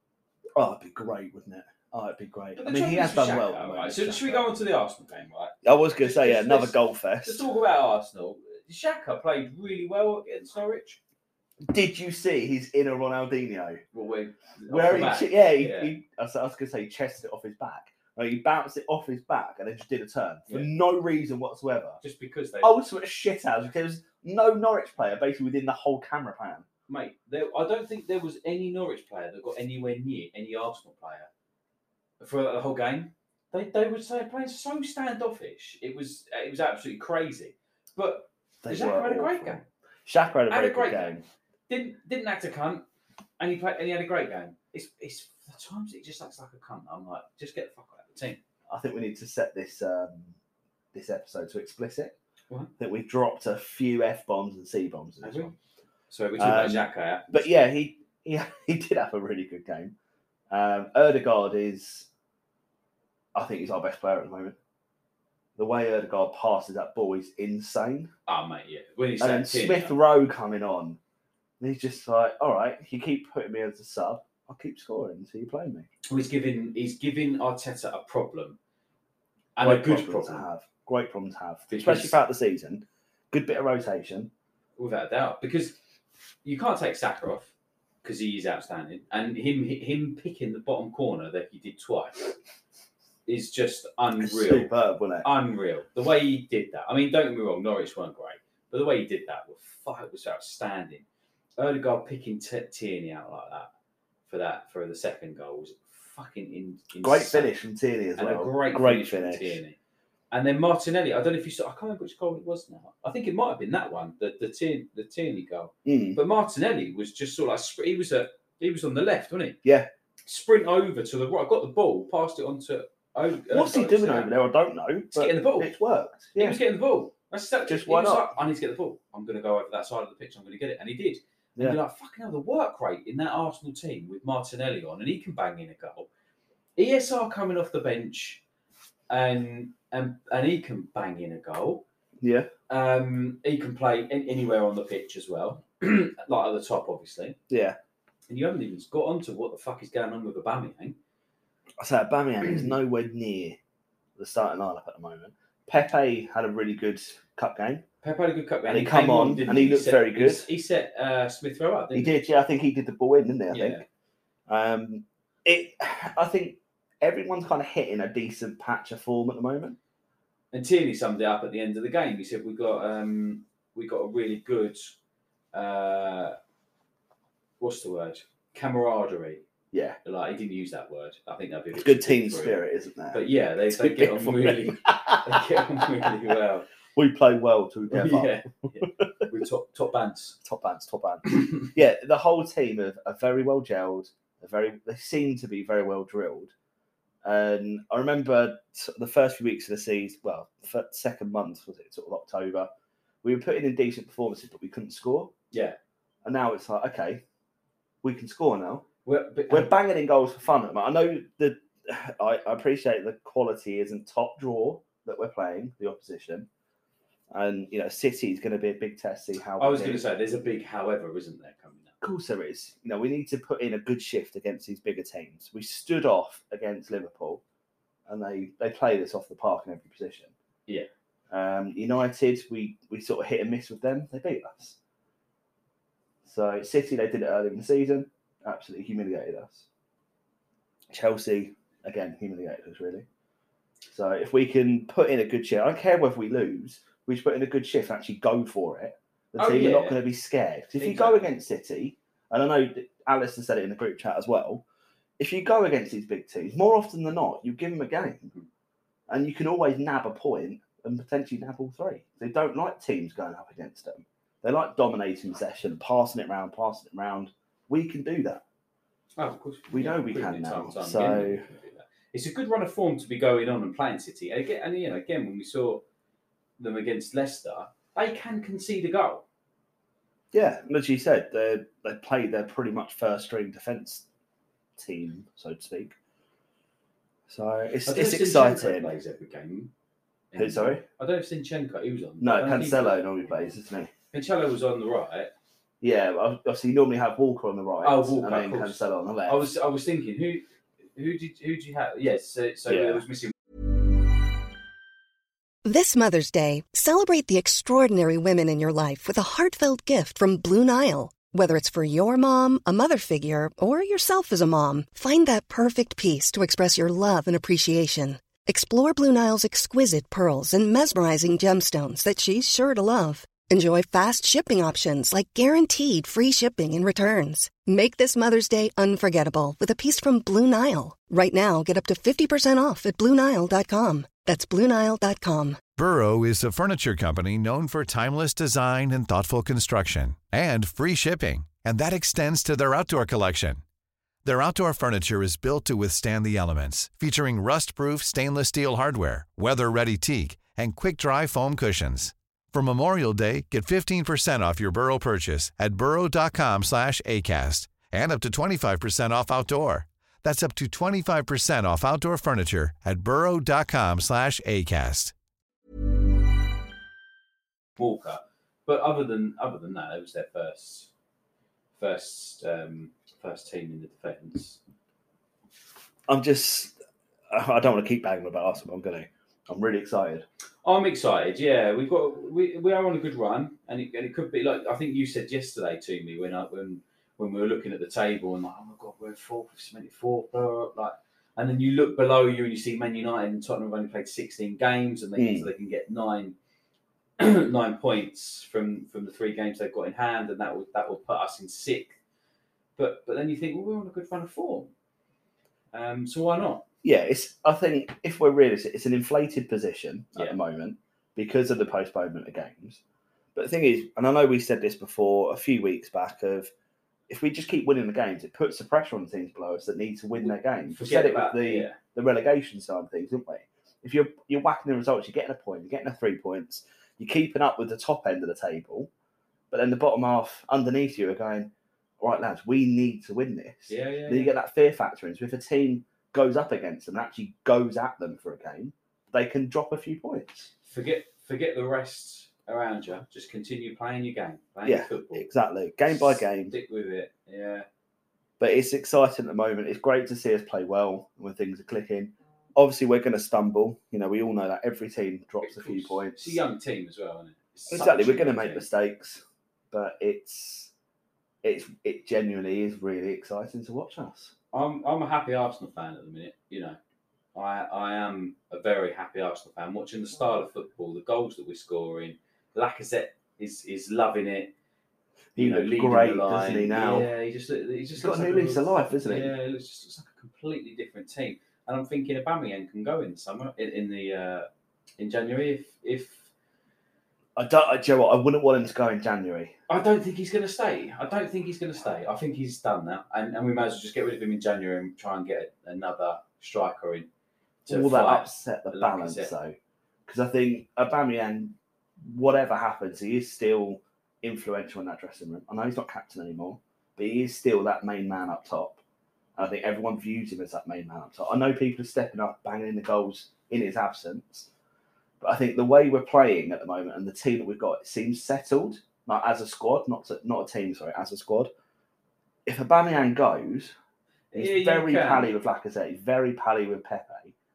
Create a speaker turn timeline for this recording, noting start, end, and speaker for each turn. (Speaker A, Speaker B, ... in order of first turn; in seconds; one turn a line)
Speaker A: 0.6-4.5
Speaker B: 2.6-11.0
Speaker A: 5.6-7.5
Speaker A: 11.7-13.8
Speaker B: 13.9-15.9
Speaker A: 14.7-22.0
Speaker B: 22.0-22.8
Speaker A: 22.6-26.7
Speaker B: 26.9-31.3
Speaker B: 32.2-39.6
Speaker A: 38.6-41.2
Speaker B: 40.5-41.1
Speaker B: 41.7-42.9
Speaker B: 43.4-48.4
Speaker A: 48.7-50.4
Speaker A: 50.9-52.1
Speaker A: 52.8-55.5
Speaker B: 55.2-55.5
Speaker B: 56.1-57.5
Speaker A: 56.4-60.0
Speaker A: 60.5-62.1
Speaker A: 63.4-64.6
Speaker A: 65.6-68.1
Speaker B: 68.3-70.0
Speaker A: 69.2-71.0
Speaker A: 71.6-75.9
Speaker B: 76.1-78.6
Speaker B: 79.6-80.5
Speaker A: 79.6-84.3
Speaker B: 81.7-82.2
Speaker B: 84.8-85.8
Speaker B: 86.4-87.5
Speaker B: 88.0-92.3
Speaker B: 93.3-94.7
Speaker A: 94.2-95.3
Speaker B: 95.2-101.0
Speaker B: 101.6-103.7
Speaker B: 104.3-107.5
Speaker A: 107.0-109.6
Speaker B: 108.2-109.8
Speaker B: 110.3-119.6
Speaker A: 115.8-116.2
Speaker A: 119.6-119.9
Speaker B: 120.3-124.3
Speaker A: 123.5-126.6
Speaker B: 125.1-125.7
Speaker B: 126.3-136.1
Speaker A: 127.7-128.3
Speaker B: 136.8-138.4
Speaker B: 139.1-141.8
Speaker A: 142.2-142.5
Speaker B: 142.7-147.4
Speaker A: 147.5-147.8
Speaker B: 148.3-151.0
Speaker A: 151.8-153.6
Speaker A: 154.2-157.8
Speaker B: 158.0-162.2
Speaker A: 158.7-160.5
Speaker A: 161.9-163.8
Speaker B: 163.5-163.8
Speaker A: 164.5-169.8
Speaker B: 170.5-175.0
Speaker B: 175.5-176.4
Speaker B: 177.6-179.4
Speaker A: 179.7-180.0
Speaker B: 180.0-186.7
Speaker A: 181.7-186.1
Speaker A: 186.9-189.0
Speaker B: 187.9-190.4
Speaker A: 190.4-196.5
Speaker B: 191.3-191.7
Speaker A: 197.2-202.7
Speaker A: 203.2-205.3
Speaker B: 205.5-205.8
Speaker A: 206.2-207.2
Speaker A: 208.0-208.9
Speaker B: 209.1-209.7
Speaker A: 209.5-216.5
Speaker A: 217.3-220.0
Speaker B: 219.6-221.9
Speaker A: 222.0-227.4
Speaker A: 228.1-230.3
Speaker A: 231.3-234.8
Speaker A: 236.2-239.7
Speaker A: 240.9-243.1
Speaker A: 243.9-254.6
Speaker B: 249.4-250.0
Speaker B: 250.8-251.3
Speaker A: 255.2-258.3
Speaker A: 259.1-268.4
Speaker B: 269.2-275.8
Speaker A: 269.7-271.4
Speaker B: 276.6-279.2
Speaker A: 280.3-284.1
Speaker A: 284.8-286.0
Speaker A: 287.3-288.9
Speaker B: 287.9-289.7
Speaker B: 290.3-293.0
Speaker A: 290.4-290.8
Speaker A: 292.2-293.9
Speaker B: 294.1-295.3
Speaker A: 295.8-299.5
Speaker B: 297.8-300.4
Speaker B: 301.0-303.3
Speaker A: 302.7-303.0
Speaker C: 305.6-335.6
Speaker D: 335.8-343.6
Speaker D: 344.2-365.1
Speaker B: 367.8-370.9
Speaker B: 371.8-374.6
Speaker A: 376.1-376.8
Speaker A: 377.3-380.3
Speaker B: 380.6-396.4
Speaker A: 395.2-395.5
Speaker B: 397.2-402.0
Speaker B: 402.8-404.7
Speaker B: 405.7-406.6
Speaker A: 406.8-412.8
Speaker A: 413.4-416.5
Speaker A: 417.1-428.9
Speaker B: 420.2-421.8
Speaker A: 429.5-440.5
Speaker B: 433.7-434.3
Speaker B: 440.7-445.3
Speaker A: 444.6-446.6
Speaker B: 446.5-447.7
Speaker A: 448.4-456.4
Speaker B: 455.4-458.6
Speaker A: 457.7-460.7
Speaker A: 461.4-464.3
Speaker B: 464.5-466.8
Speaker B: 467.4-474.5
Speaker A: 475.4-477.1
Speaker B: 475.4-484.5
Speaker A: 478.0-479.3
Speaker B: 485.0-486.3
Speaker A: 487.4-489.6
Speaker B: 489.7-497.1
Speaker B: 497.6-499.3
Speaker A: 497.7-499.6
Speaker A: 500.1-508.8
Speaker A: 509.4-514.5
Speaker A: 515.2-521.5
Speaker A: 522.5-523.8
Speaker B: 524.3-525.3
Speaker A: 524.3-527.3